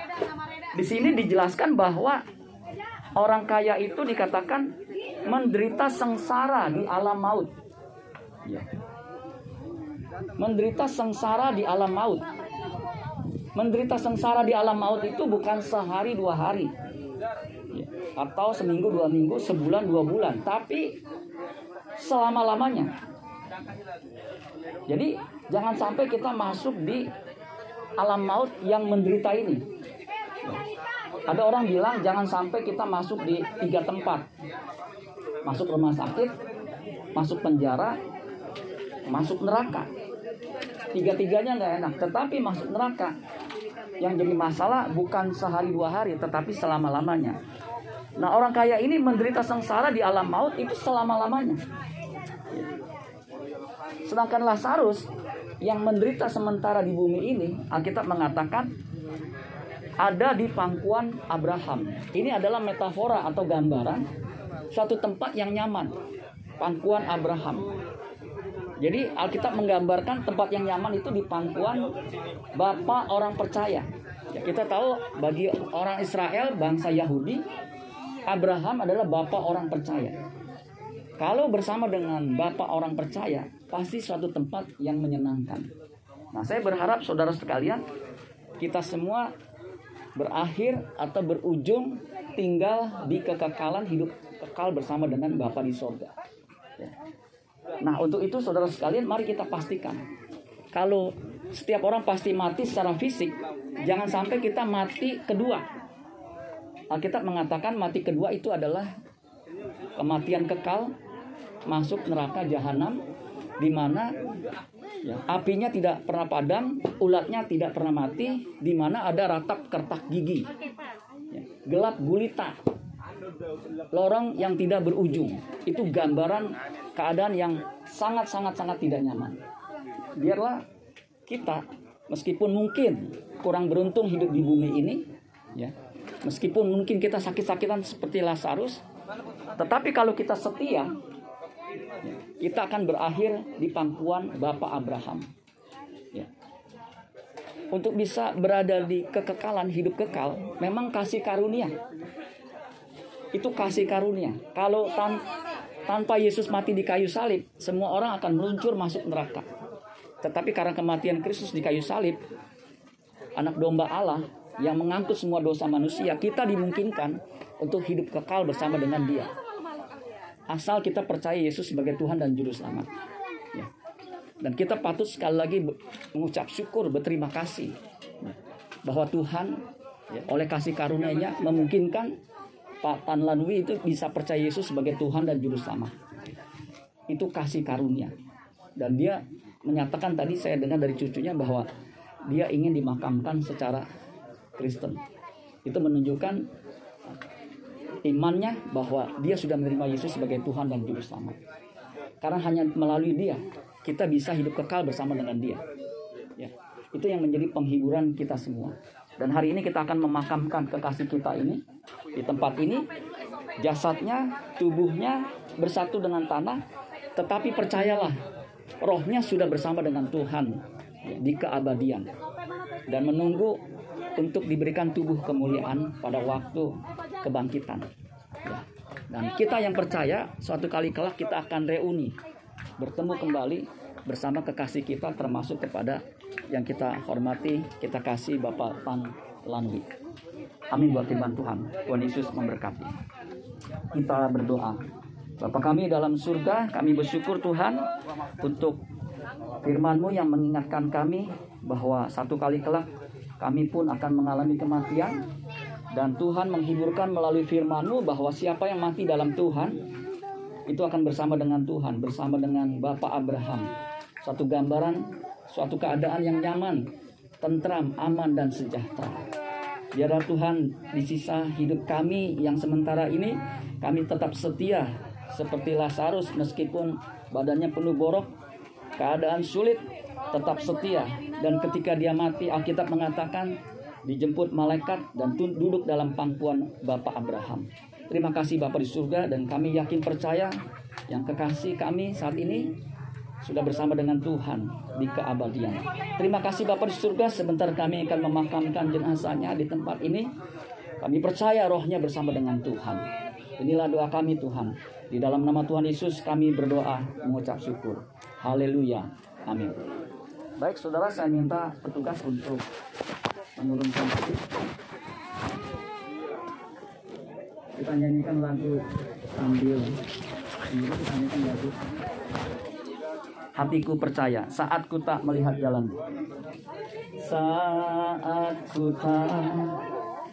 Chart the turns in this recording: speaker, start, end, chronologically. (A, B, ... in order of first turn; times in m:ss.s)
0:00.7-0:02.2 A
0:03.2-0:04.7 A
0:05.3-0:07.5 A
0:10.4-0:12.2 A
0:13.5-0:16.7 A
0:17.7-0:20.9 A
0:22.0-0:22.9 A
0:24.9-0:27.1 A
0:28.0-0:29.6 A
0:31.3-0:34.2 A
0:35.4-0:36.3 A
0:37.1-0:38.0 A
0:39.1-0:39.9 A
0:40.9-0:43.1 A
0:44.0-0:47.4 A
0:48.2-0:51.6 A
0:54.0-0:55.1 A
0:55.6-0:58.7 A
1:00.0-1:04.0 A
1:04.7-1:05.9 A
1:06.6-1:07.7 A
1:08.8-1:11.9 A
1:12.5-1:17.4 A
1:18.2-1:20.2 A
1:21.2-1:25.7 A
1:26.3-1:27.8 A
1:28.6-1:29.3 A
1:30.1-1:36.1 A
1:37.8-1:40.0 A
1:40.7-1:45.6 A
1:46.9-1:48.9 A
1:50.0-1:50.9 A
1:51.6-1:53.0 A
1:53.6-1:54.1 A
1:55.0-2:00.5 A
2:01.3-2:02.5 A
2:03.9-2:09.4 A
2:10.2-2:10.6 A
2:11.3-2:15.0 A
2:15.5-2:18.8 A
2:19.6-2:20.9 A
2:22.0-2:25.3 A
2:27.7-2:31.7 A
2:33.3-2:35.2 A
2:35.9-2:39.5 A
2:40.2-2:42.2 A
2:43.4-2:49.3 A
2:50.5-2:52.9 A
2:54.4-2:57.7 A
2:58.8-3:02.1 A
3:02.8-3:05.9 A
3:07.1-3:08.1 A
3:08.8-3:11.7 A
3:12.3-3:13.8 A
3:14.6-3:15.0 A
3:15.6-3:16.4 A
3:18.0-3:21.4 A
3:22.2-3:25.6 A
3:26.4-3:31.6 A
3:32.1-3:32.9 A
3:33.6-3:36.6 A
3:37.2-3:38.2 A
3:38.8-3:42.1 A
3:42.9-3:43.6 A
3:44.2-3:47.8 A
3:48.4-3:52.1 A
3:52.8-3:59.9 A
4:00.7-4:02.9 A
4:03.9-4:04.8 A
4:05.4-4:07.8 A
4:08.4-4:08.8 A
4:09.6-4:12.9 A
4:13.4-4:15.2 A
4:15.9-4:19.7 A
4:20.7-4:23.7 A
4:24.2-4:26.8 A
4:27.4-4:29.2 A
4:29.9-4:38.3 A
4:39.0-4:50.5 A
4:51.1-4:52.7 A
4:53.4-5:00.3 A
5:01.0-5:03.1 A
5:03.6-5:09.8 A
5:10.6-5:12.6 A
5:13.6-5:14.4 A
5:17.7-5:20.0 A
5:20.7-5:21.8 A
5:23.6-5:26.0 A
5:27.2-5:29.8 A